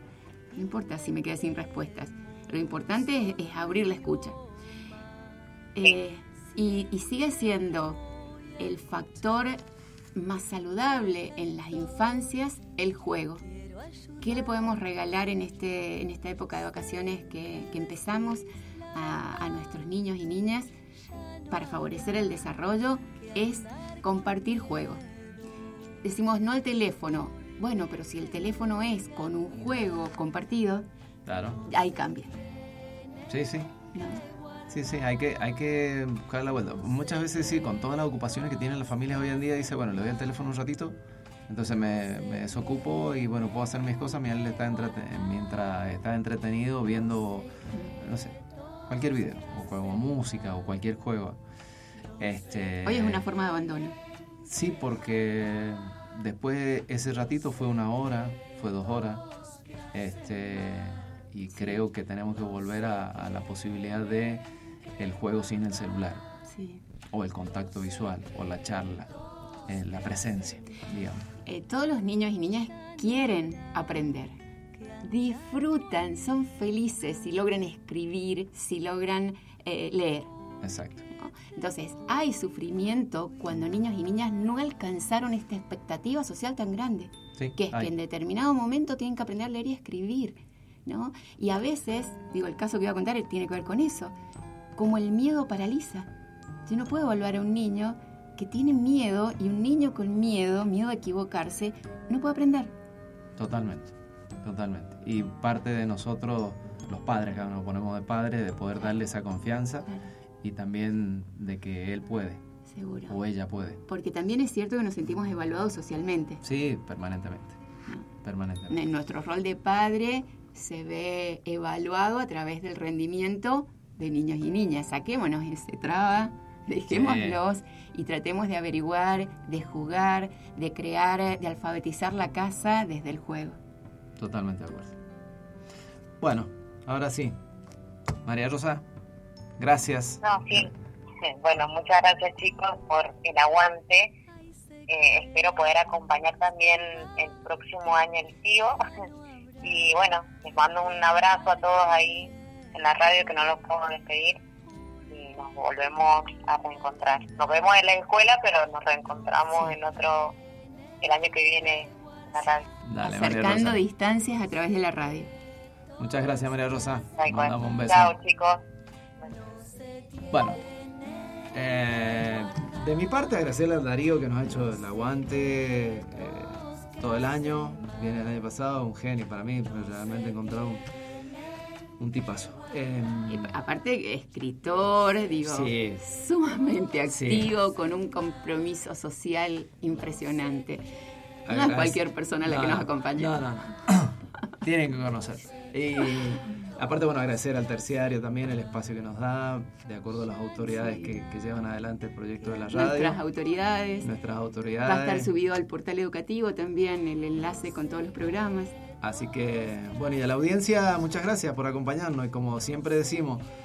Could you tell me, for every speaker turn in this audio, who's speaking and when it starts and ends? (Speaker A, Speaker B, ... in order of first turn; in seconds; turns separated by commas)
Speaker A: 0.5-4.4, Speaker A: 5.8-8.0, Speaker A: 8.6-9.6, Speaker A: 10.1-13.4, Speaker A: 14.2-20.7, Speaker A: 21.5-25.0, Speaker A: 26.0-30.9, Speaker B: 31.2-31.6, Speaker A: 31.6-32.4, Speaker B: 33.3-33.7, Speaker A: 33.9-34.2, Speaker B: 34.7-48.4, Speaker B: 48.9-51.4, Speaker B: 52.2-53.2, Speaker A: 52.8-54.0, Speaker B: 54.5-59.2, Speaker B: 59.9-64.4, Speaker A: 61.5-61.8, Speaker B: 65.0-66.2, Speaker A: 66.5-66.8, Speaker B: 67.1-69.1, Speaker B: 69.7-71.3, Speaker A: 71.4-74.4, Speaker A: 75.0-80.3, Speaker B: 80.6-81.0, Speaker A: 81.2-94.1, Speaker B: 87.4-87.9, Speaker A: 94.8-96.1, Speaker A: 96.7-102.7, Speaker B: 103.3-109.9, Speaker B: 110.4-112.4, Speaker A: 112.7-113.2, Speaker B: 113.1-113.8, Speaker A: 113.9-116.4, Speaker B: 116.4-117.6, Speaker B: 118.2-118.8, Speaker A: 118.7-133.6, Speaker B: 126.9-127.4, Speaker B: 134.2-135.0, Speaker B: 136.2-137.3, Speaker B: 138.2-138.8, Speaker B: 139.6-140.7, Speaker C: 140.2-140.7, Speaker C: 141.2-144.1, Speaker C: 144.9-148.8, Speaker C: 149.6-154.4, Speaker C: 155.1-160.3, Speaker C: 161.0-162.7, Speaker B: 162.8-163.8, Speaker A: 163.0-165.3, Speaker B: 166.0-168.1, Speaker C: 167.2-168.6, Speaker B: 170.3-170.6, Speaker B: 171.5-180.8, Speaker B: 182.0-183.5, Speaker A: 183.3-190.8, Speaker B: 185.4-186.0, Speaker B: 187.1-187.5, Speaker B: 191.4-203.2, Speaker A: 191.5-193.4, Speaker A: 200.7-201.1, Speaker A: 202.7-204.1, Speaker B: 204.0-205.3, Speaker A: 204.8-208.8, Speaker B: 209.0-213.4